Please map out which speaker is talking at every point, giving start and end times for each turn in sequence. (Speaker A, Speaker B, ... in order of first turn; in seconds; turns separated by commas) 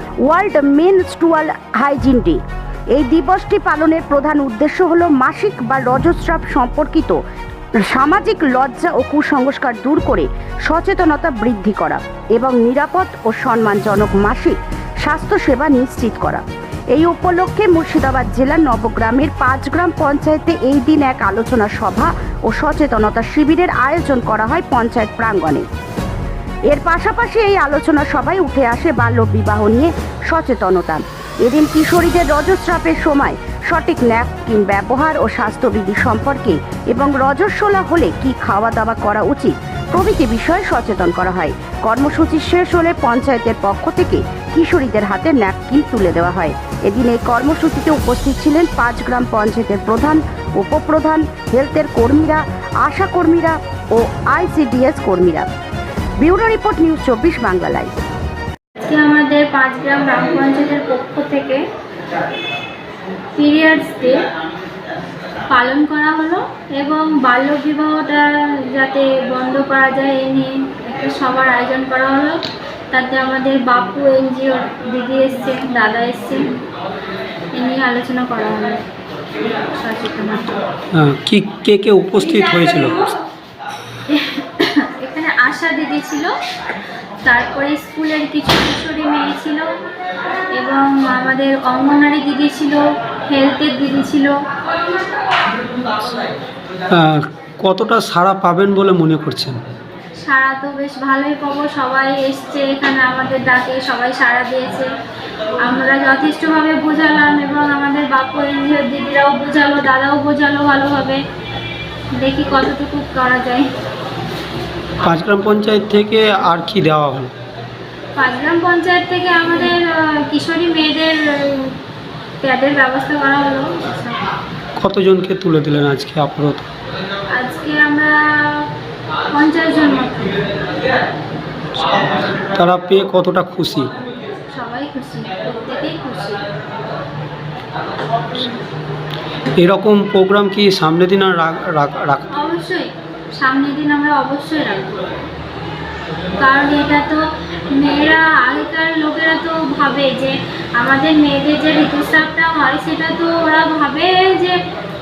Speaker A: 0.3-2.4, Speaker A: 3.0-7.2, Speaker A: 7.8-25.6, Speaker A: 26.7-55.5, Speaker A: 56.2-58.0, Speaker B: 58.8-61.6, Speaker B: 63.4-64.2, Speaker B: 65.5-76.5, Speaker B: 77.5-78.8, Speaker B: 79.7-80.5, Speaker C: 80.9-83.1, Speaker B: 84.1-86.3, Speaker B: 87.2-89.7, Speaker B: 90.5-94.3, Speaker C: 96.9-99.6, Speaker B: 100.2-104.9, Speaker B: 105.6-111.2, Speaker B: 112.1-113.7, Speaker C: 115.0-117.3, Speaker B: 118.2-121.7, Speaker B: 122.4-124.2, Speaker C: 124.8-126.7, Speaker B: 127.3-128.7, Speaker B: 129.3-130.4, Speaker C: 131.8-133.9, Speaker B: 134.5-136.4, Speaker C: 139.6-142.2, Speaker B: 142.3-145.1, Speaker B: 146.4-154.6